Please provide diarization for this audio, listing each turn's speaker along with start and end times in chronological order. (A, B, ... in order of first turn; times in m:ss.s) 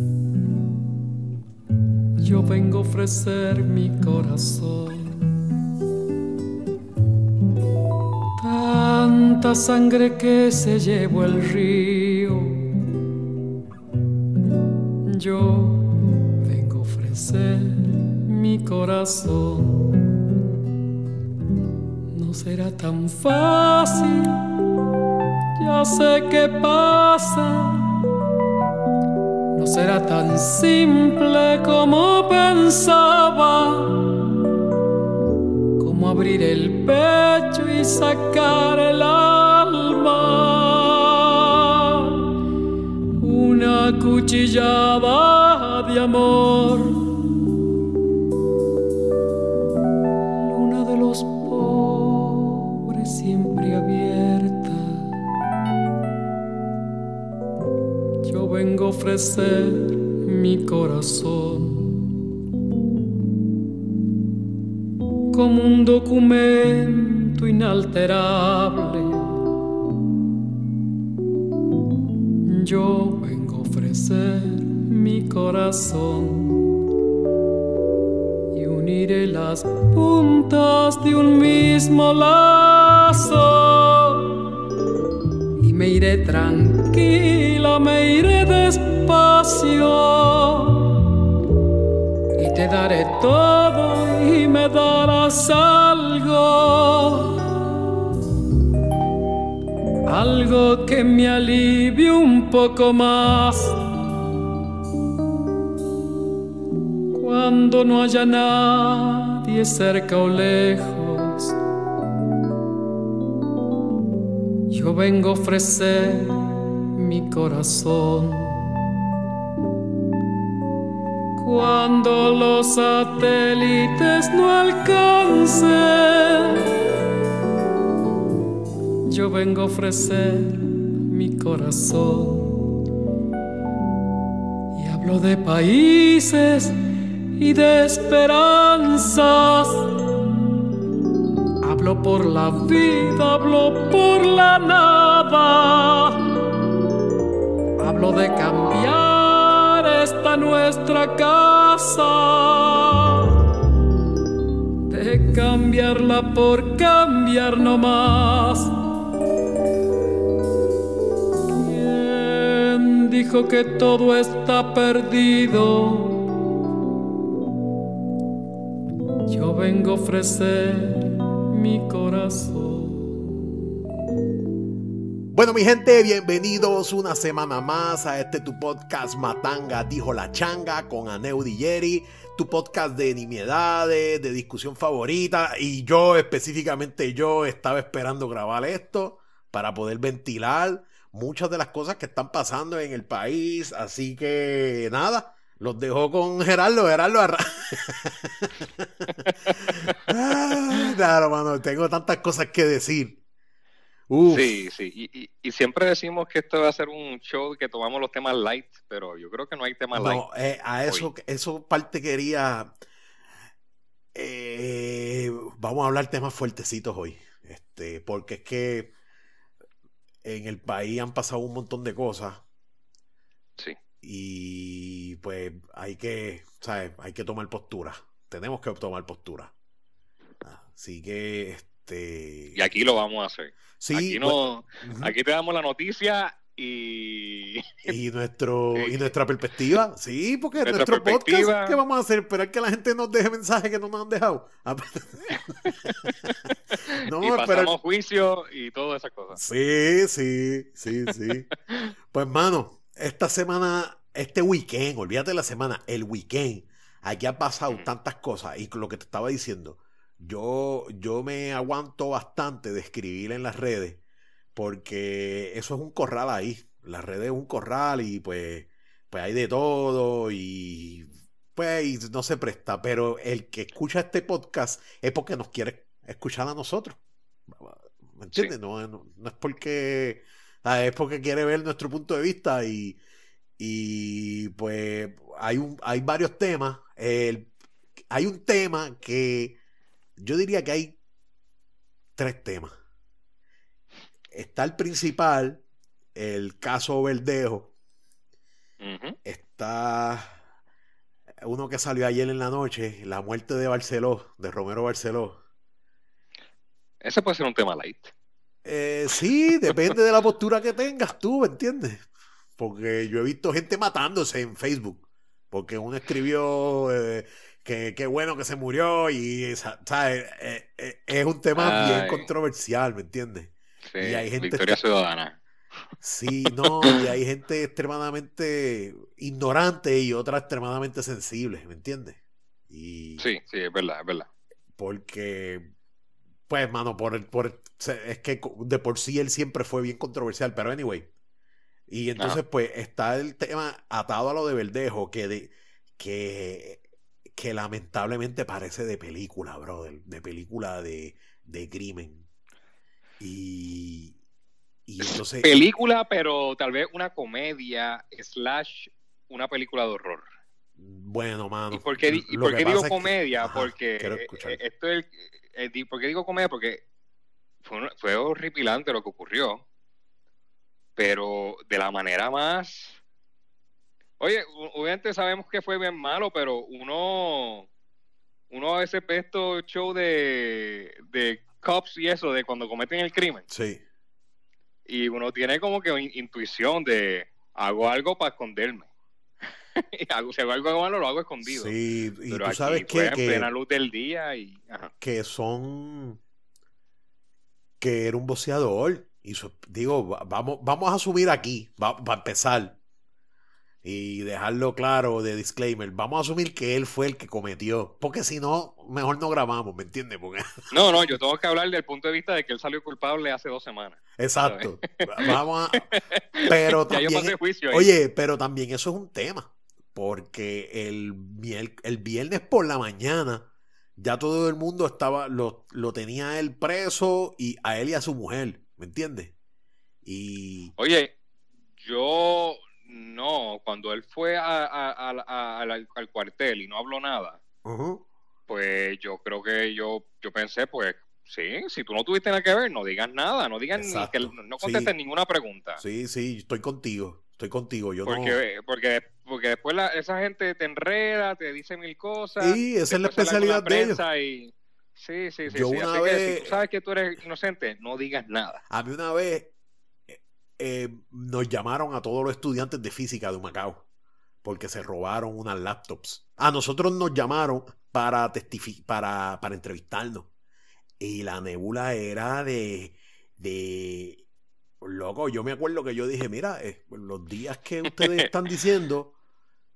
0:02.2-0:05.2 A
0:08.4-0:12.7 A
0:15.0-0:15.9 A
0:16.4-0:20.0 A
0:22.1-0:24.4 A
0:25.6-0:27.9 A
0:29.5-0:34.2 A
0:35.8-0:42.2 A
0:43.2-0:47.1 A
0:50.4-0:55.1 A
0:58.2-1:02.0 A
1:05.3-1:09.4 A
1:12.4-1:16.7 A
1:18.5-1:24.4 A
1:25.6-1:31.0 A
1:32.4-1:37.4 A
1:40.1-1:43.8 A
1:47.1-1:51.6 A
1:54.7-1:58.8 A
2:01.4-2:06.7 A
2:09.1-2:12.6 A
2:14.7-2:16.8 A
2:17.4-2:19.9 A
2:21.6-2:26.3 A
2:27.8-2:33.3 A
2:34.9-2:38.7 A
2:41.5-2:46.3 A
2:49.3-2:53.2 A
2:55.3-3:23.2 B
3:19.2-3:20.0 C
3:24.1-3:24.6 B
3:24.3-3:30.2 C
3:29.9-3:32.7 B
3:34.1-3:38.9 B
3:40.2-3:42.4 B
3:44.0-3:49.5 B
3:50.4-3:52.7 B
3:52.5-3:57.9 C
3:53.8-3:55.1 B
3:57.8-4:06.1 B
3:58.7-3:59.1 C
4:00.6-4:01.8 C
4:05.3-4:09.4 C
4:06.9-4:07.7 B
4:09.3-4:11.5 B
4:12.1-4:24.0 B
4:24.5-4:43.0 B
4:43.6-4:47.5 B
4:48.1-4:49.6 B
4:50.2-4:51.0 B
4:52.2-4:52.7 B
4:54.3-4:55.6 B
4:56.1-4:57.7 B
4:58.8-4:59.2 C
4:59.2-5:00.4 B
5:01.4-5:05.4 B
5:07.0-5:08.1 C
5:08.6-5:12.0 B
5:12.6-5:24.8 B
5:21.6-5:22.3 C
5:23.8-5:25.4 C
5:26.0-5:33.3 B
5:26.5-5:27.0 C
5:33.2-5:34.3 C
5:34.8-5:35.7 B
5:36.5-5:41.1 B
5:41.9-5:52.2 B
5:53.2-5:54.2 B
5:54.8-5:55.5 B
5:55.0-6:00.3 C
6:00.8-6:04.6 B
6:01.7-6:06.8 C
6:07.6-6:09.6 C
6:11.0-6:13.0 C
6:14.2-6:17.7 C
6:18.5-6:23.4 C
6:23.5-6:23.8 B
6:24.9-6:28.9 C
6:29.8-6:31.8 C
6:31.4-6:33.5 B
6:32.3-6:34.9 C
6:35.0-6:36.2 B
6:37.8-6:42.8 B
6:43.8-6:50.9 B
6:50.7-6:57.9 C
6:54.2-6:55.9 B
6:56.4-7:09.3 B
7:10.0-7:10.7 B
7:10.8-7:11.1 C
7:11.8-7:17.4 C
7:17.6-7:18.0 B
7:18.5-7:25.8 C
7:23.7-7:24.9 B
7:25.8-7:28.4 B
7:28.0-7:38.6 C
7:32.4-7:34.0 B
7:35.5-7:36.6 B
7:38.7-7:39.5 B
7:40.1-7:43.8 B
7:44.4-7:50.3 B
7:51.0-7:54.2 B
7:54.8-7:59.1 B
7:57.9-7:58.3 C